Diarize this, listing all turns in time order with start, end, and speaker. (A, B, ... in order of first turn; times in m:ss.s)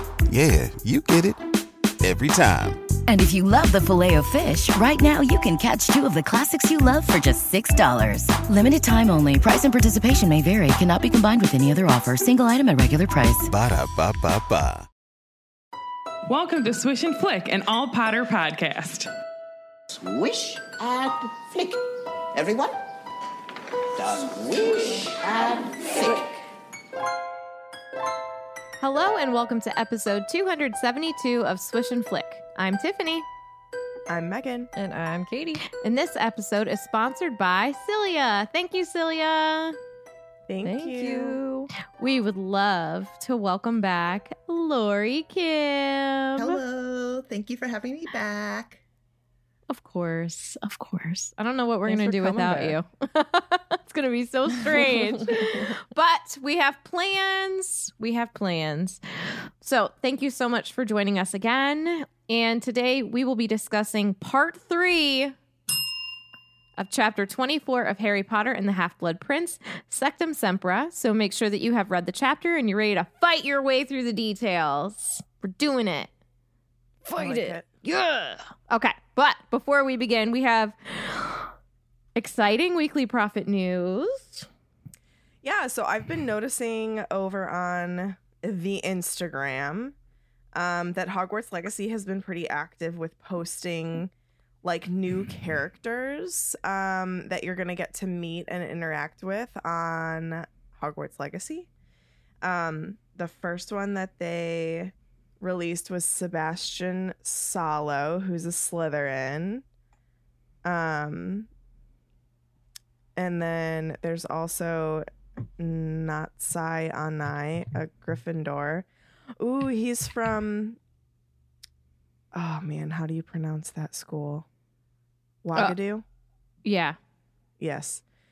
0:00.3-0:01.4 A
0:02.0-0:02.8 A
0:03.1-0:13.5 B
0:13.5-0:14.9 A
0:16.3-0:19.1 C
0:19.9-0:21.8 D
0:22.3-0:22.8 D
0:24.0-0:26.4 D
0:28.8-0:33.2 E
0:34.1-0:34.7 F
0:34.8-0:35.6 G
0:35.7-0:39.8 E
0:40.5-0:41.4 F
0:40.6-0:41.7 G
0:42.0-0:46.6 E
0:46.4-0:48.8 H
0:49.7-1:05.4 E
0:51.9-0:52.8 G
0:55.3-0:55.7 G
1:06.8-1:16.1 E
1:17.0-1:21.5 E
1:17.2-1:17.7 F
1:22.2-1:24.5 E
1:25.4-1:30.0 F
1:30.5-1:34.1 F
1:34.6-1:41.7 F
1:42.4-1:49.6 F
1:50.6-1:51.5 F
1:53.2-1:55.1 F
1:55.6-1:58.9 F
1:59.4-2:00.8 F
2:02.3-2:04.5 F
2:05.4-2:06.0 F
2:06.6-2:07.0 E
2:07.6-2:08.0 F